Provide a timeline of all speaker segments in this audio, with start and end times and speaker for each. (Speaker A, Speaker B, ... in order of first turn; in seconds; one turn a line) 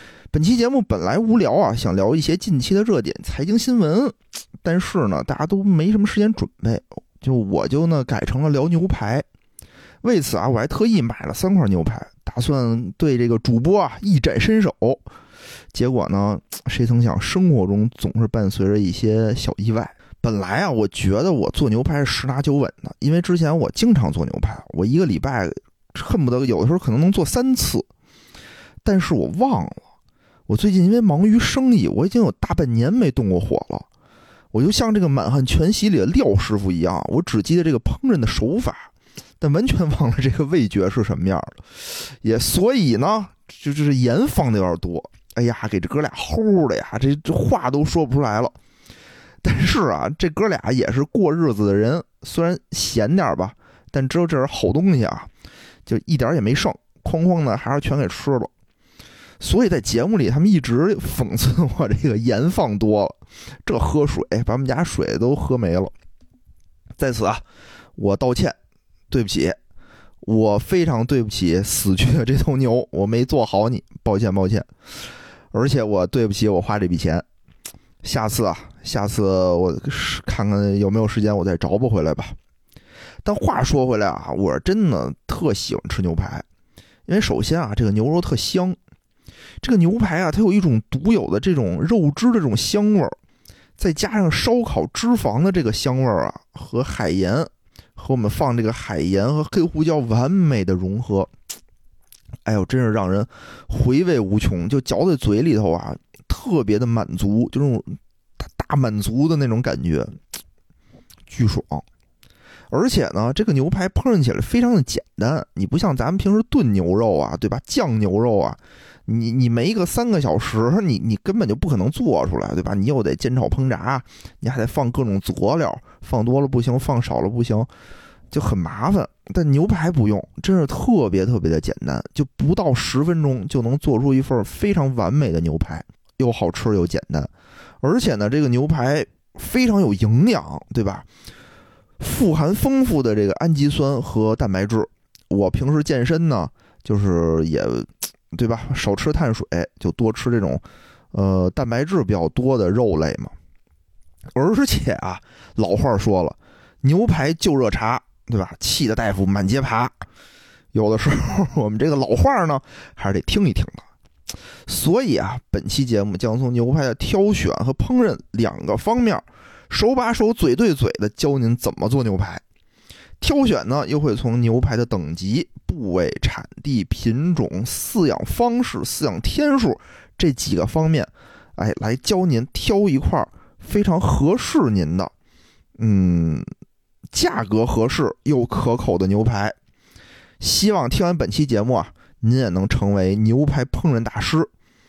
Speaker A: 0.3-9.2
Speaker A: 10.0-15.0
Speaker A: 15.7-27.9
Speaker A: 28.8-29.8
Speaker A: 30.5-33.9
Speaker A: 34.5-38.9
Speaker A: 39.4-48.5
Speaker A: 49.4-55.3
Speaker A: 55.9-58.5
Speaker A: 59.4-65.9
Speaker A: 67.0-67.4
Speaker A: 68.0-68.6
Speaker A: 69.1-69.6
Speaker A: 70.2-74.7
Speaker A: 75.5-77.2
Speaker A: 78.0-82.3
Speaker A: 83.2-86.4
Speaker A: 87.1-88.8
Speaker A: 89.6-93.2
Speaker A: 93.8-101.3
Speaker A: 102.4-110.2
Speaker A: 111.3-111.8
Speaker A: 112.7-127.7
Speaker A: 128.3-137.3
Speaker A: 137.8-141.1
Speaker A: 142.0-153.3
Speaker A: 154.3-159.9
Speaker A: 160.7-163.8
Speaker A: 164.7-172.4
Speaker A: 173.2-185.1
Speaker A: 185.8-186.5
Speaker A: 187.1-189.6
Speaker A: 190.4-194.5